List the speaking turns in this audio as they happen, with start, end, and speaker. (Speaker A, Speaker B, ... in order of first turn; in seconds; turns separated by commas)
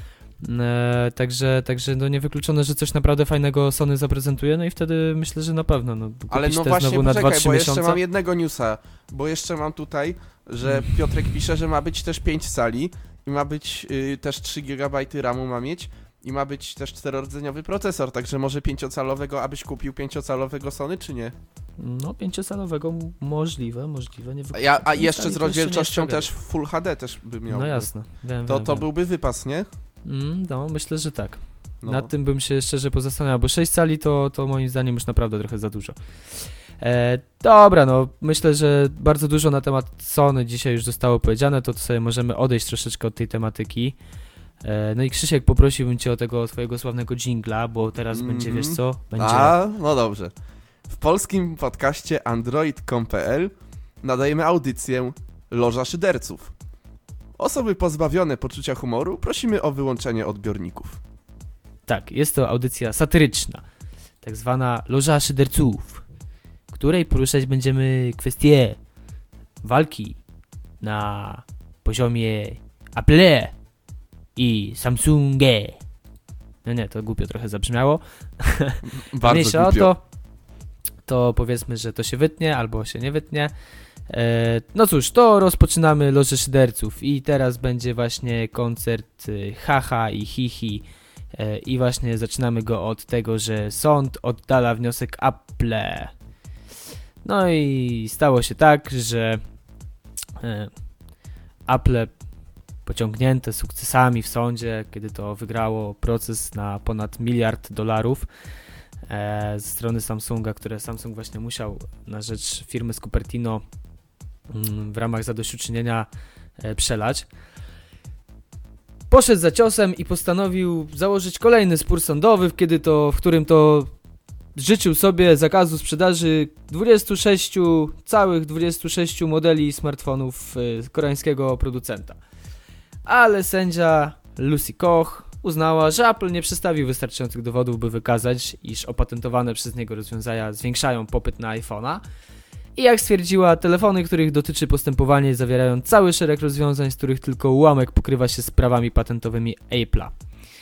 Speaker A: 0.4-8.0, Speaker B: 6.3-21.4, Speaker A: 21.8-26.3, Speaker B: 24.5-29.7, Speaker A: 27.5-28.9, Speaker A: 30.0-44.0, Speaker B: 31.8-32.1, Speaker A: 44.6-49.6, Speaker B: 48.1-50.3, Speaker B: 50.9-56.5, Speaker B: 57.4-61.0, Speaker A: 61.9-63.6, Speaker A: 64.2-66.0, Speaker A: 66.7-68.8, Speaker A: 69.6-70.2, Speaker A: 70.8-73.6, Speaker A: 74.3-75.8, Speaker A: 76.6-80.0, Speaker B: 78.9-79.9, Speaker A: 81.1-83.5, Speaker A: 84.1-96.2, Speaker A: 97.2-99.5, Speaker A: 100.4-100.9, Speaker A: 101.7-102.3, Speaker A: 102.8-108.3, Speaker A: 109.1-113.6, Speaker A: 114.5-117.3, Speaker A: 119.1-123.9, Speaker A: 124.5-132.2, Speaker A: 133.1-142.0, Speaker A: 142.8-150.2